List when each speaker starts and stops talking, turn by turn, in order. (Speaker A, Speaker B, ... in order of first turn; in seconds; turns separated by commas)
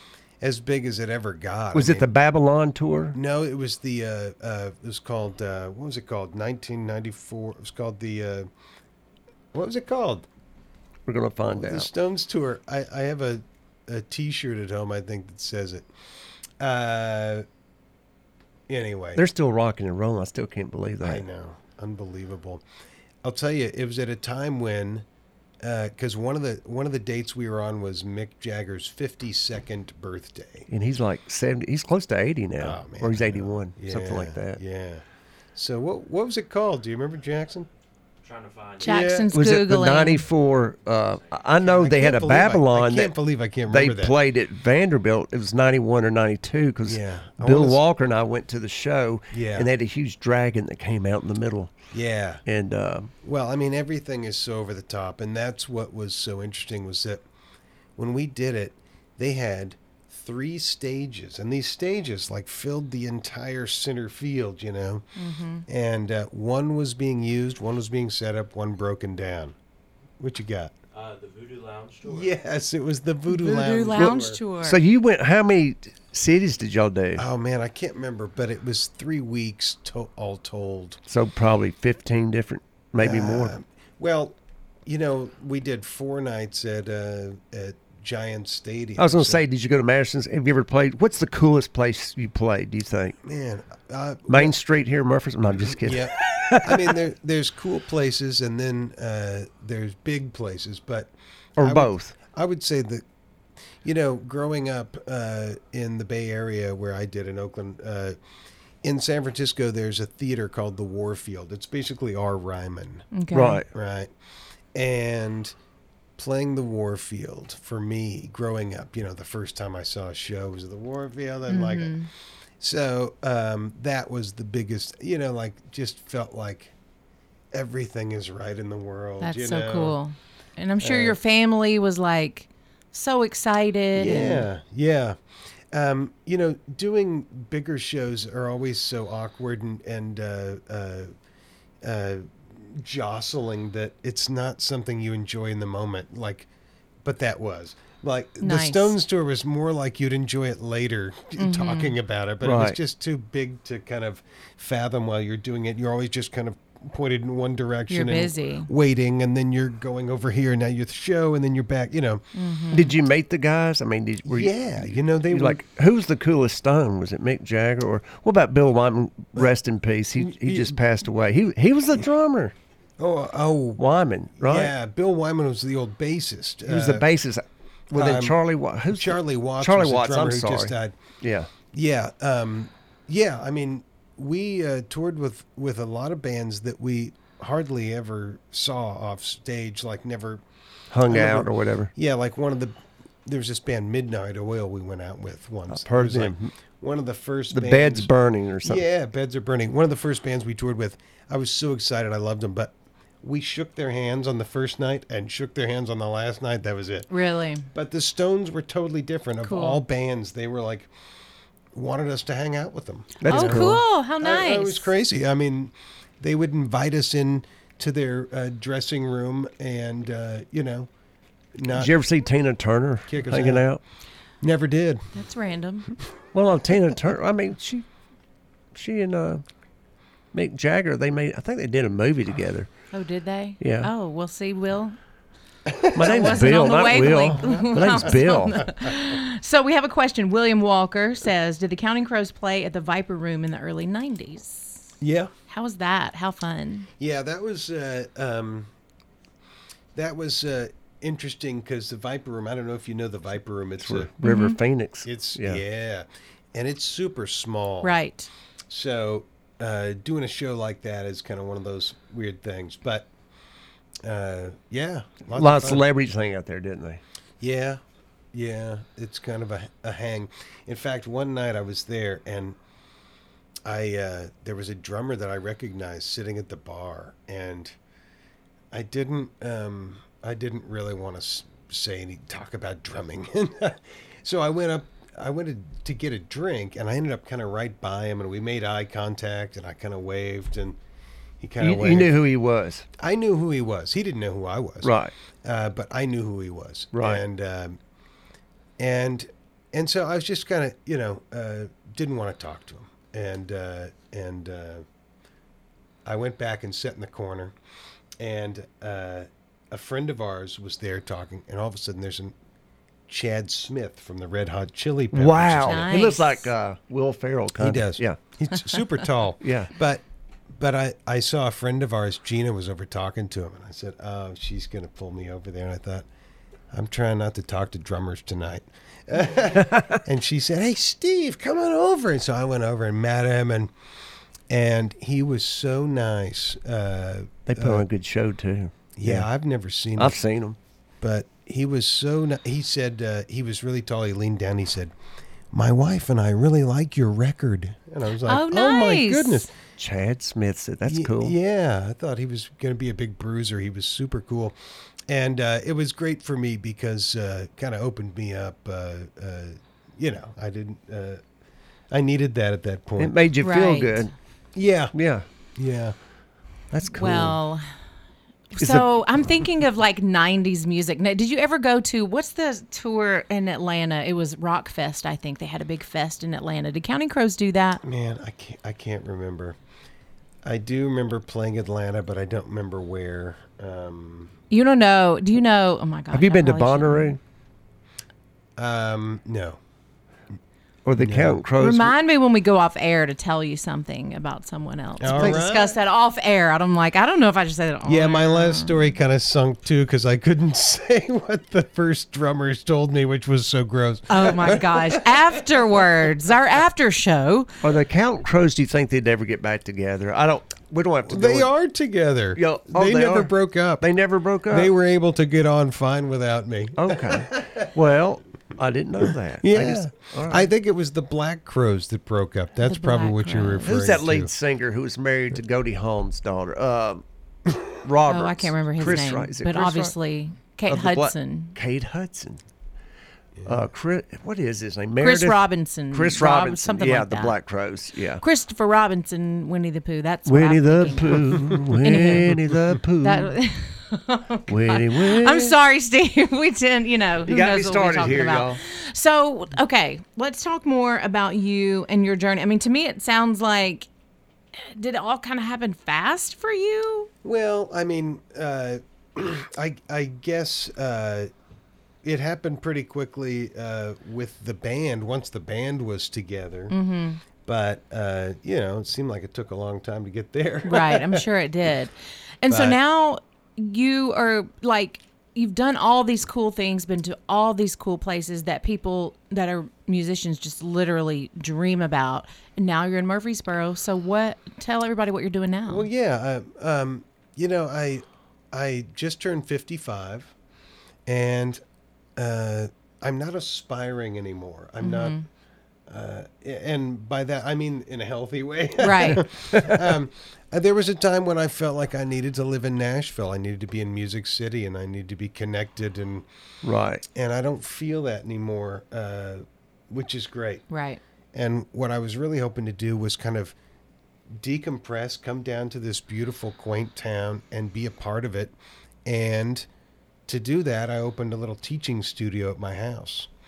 Speaker A: 0.4-2.1, Speaker B: 1.7-3.2, Speaker A: 3.1-8.5, Speaker A: 9.5-10.2, Speaker B: 11.1-11.9, Speaker A: 11.5-15.9, Speaker A: 16.6-17.4, Speaker A: 18.7-19.2, Speaker B: 19.1-21.2, Speaker A: 21.0-22.6, Speaker A: 23.2-25.1, Speaker A: 25.6-30.7, Speaker B: 30.7-34.6, Speaker A: 32.6-35.0, Speaker A: 35.5-37.7, Speaker C: 38.2-39.1, Speaker D: 38.8-40.2, Speaker A: 38.8-39.3, Speaker B: 39.3-43.1, Speaker C: 41.0-41.4, Speaker A: 41.5-44.1, Speaker B: 43.7-51.7, Speaker A: 46.9-47.8, Speaker A: 49.3-49.7, Speaker A: 51.9-52.4, Speaker B: 52.5-53.1, Speaker A: 53.2-57.2, Speaker A: 58.0-65.1, Speaker D: 65.2-65.6, Speaker A: 65.7-69.5, Speaker A: 70.2-70.7, Speaker C: 70.9-72.3, Speaker A: 72.0-74.4, Speaker D: 73.3-74.8, Speaker B: 74.0-77.2, Speaker A: 77.1-81.0, Speaker B: 81.1-83.5, Speaker A: 83.0-89.4, Speaker B: 89.0-93.2, Speaker A: 93.2-94.5, Speaker B: 94.3-97.0, Speaker A: 95.7-103.0, Speaker B: 101.6-102.1, Speaker A: 103.8-108.2, Speaker A: 108.8-113.1, Speaker D: 113.1-113.6, Speaker B: 113.3-113.7, Speaker A: 113.7-114.1, Speaker A: 114.7-115.5, Speaker A: 116.2-122.0, Speaker D: 121.5-122.1, Speaker A: 122.6-126.7, Speaker A: 127.5-130.0, Speaker D: 129.2-134.4, Speaker A: 130.8-131.2, Speaker A: 133.9-135.2, Speaker A: 135.7-141.1, Speaker A: 141.8-146.5, Speaker A: 147.0-162.2, Speaker D: 148.4-148.9, Speaker D: 151.4-151.9, Speaker B: 152.4-152.8, Speaker D: 157.9-158.7, Speaker D: 162.3-162.9, Speaker B: 162.7-172.5, Speaker A: 164.2-165.6, Speaker A: 170.2-170.8, Speaker A: 173.0-173.8, Speaker B: 173.8-174.7, Speaker A: 174.4-177.1, Speaker B: 176.7-181.5, Speaker A: 177.9-178.4, Speaker A: 178.9-180.9, Speaker A: 181.7-190.4, Speaker B: 190.9-191.9, Speaker A: 191.1-198.1, Speaker B: 195.7-196.5, Speaker B: 197.5-198.8, Speaker A: 198.6-207.1, Speaker D: 207.1-207.7, Speaker A: 207.7-210.9, Speaker D: 209.4-209.8, Speaker A: 211.7-220.9, Speaker B: 213.2-213.8, Speaker D: 213.3-214.9, Speaker A: 221.6-221.9, Speaker B: 221.7-223.8, Speaker A: 223.1-223.7, Speaker A: 224.4-225.1, Speaker D: 225.1-225.9, Speaker B: 226.3-227.8, Speaker B: 228.7-229.4, Speaker B: 230.3-232.7, Speaker D: 232.9-235.0, Speaker B: 233.6-233.9, Speaker A: 235.7-238.9, Speaker B: 235.9-238.6, Speaker D: 236.0-244.9, Speaker A: 245.0-245.3, Speaker D: 245.5-246.9, Speaker A: 247.0-248.7, Speaker A: 249.9-254.1, Speaker B: 253.8-255.6, Speaker D: 254.2-254.6, Speaker A: 255.0-258.0, Speaker D: 257.8-258.3, Speaker A: 258.7-263.1, Speaker A: 264.0-265.8, Speaker B: 265.3-267.0, Speaker A: 267.4-267.8, Speaker A: 268.3-272.6, Speaker A: 273.6-277.8, Speaker A: 278.7-290.8, Speaker A: 291.4-292.2, Speaker B: 291.6-292.9, Speaker A: 293.0-297.8, Speaker B: 294.8-295.1, Speaker B: 296.9-297.2, Speaker A: 298.8-304.9, Speaker A: 306.0-307.5, Speaker A: 308.2-312.3, Speaker A: 313.1-315.9, Speaker B: 315.1-318.2, Speaker D: 315.6-316.5, Speaker A: 317.6-326.1, Speaker B: 319.4-319.7, Speaker A: 326.7-333.7, Speaker B: 329.5-330.0, Speaker A: 334.5-337.9, Speaker B: 337.5-339.3, Speaker A: 338.9-340.2, Speaker B: 340.0-340.6, Speaker A: 341.0-344.9, Speaker A: 345.5-349.5, Speaker D: 348.2-349.5, Speaker B: 349.8-351.3, Speaker A: 350.9-354.6, Speaker A: 355.1-361.2, Speaker A: 361.9-363.1, Speaker B: 363.0-364.1, Speaker D: 363.4-364.1, Speaker A: 364.5-364.9, Speaker B: 364.9-365.2, Speaker A: 365.6-365.9, Speaker B: 366.7-367.4, Speaker D: 366.9-367.6, Speaker D: 368.5-377.8, Speaker B: 368.6-369.2, Speaker A: 377.8-379.6, Speaker A: 380.4-384.3, Speaker D: 384.5-387.1, Speaker B: 386.1-387.2, Speaker A: 388.6-389.6, Speaker B: 390.9-391.9, Speaker A: 391.0-391.4, Speaker D: 391.6-398.8, Speaker A: 395.0-395.8, Speaker B: 395.1-395.4, Speaker A: 397.8-405.8, Speaker D: 404.1-407.5, Speaker B: 407.6-411.5, Speaker A: 411.1-413.9, Speaker B: 412.4-414.7, Speaker A: 414.5-417.7, Speaker B: 416.8-420.5, Speaker A: 419.4-424.3, Speaker D: 422.6-423.7, Speaker B: 423.6-427.0, Speaker B: 427.7-429.9, Speaker D: 428.1-431.5, Speaker B: 430.7-432.4, Speaker A: 433.4-433.6, Speaker B: 433.4-438.2, Speaker D: 435.0-437.3, Speaker D: 438.2-441.3, Speaker B: 440.2-443.3, Speaker D: 441.8-442.3, Speaker D: 443.0-453.9, Speaker B: 444.5-445.5, Speaker B: 447.2-448.6, Speaker D: 454.7-457.1, Speaker A: 457.2-461.3, Speaker A: 462.0-466.7, Speaker D: 466.7-467.2, Speaker A: 467.4-471.2, Speaker D: 470.6-485.9, Speaker A: 472.5-472.8, Speaker A: 485.7-490.3, Speaker A: 491.1-491.6, Speaker A: 492.1-495.2, Speaker D: 494.8-495.2, Speaker A: 495.9-506.2, Speaker D: 498.8-499.2, Speaker B: 499.5-499.8, Speaker B: 506.6-507.0, Speaker A: 507.1-510.6, Speaker D: 510.7-511.0, Speaker A: 511.3-513.5, Speaker A: 514.3-518.5, Speaker A: 519.0-519.7, Speaker A: 520.3-523.3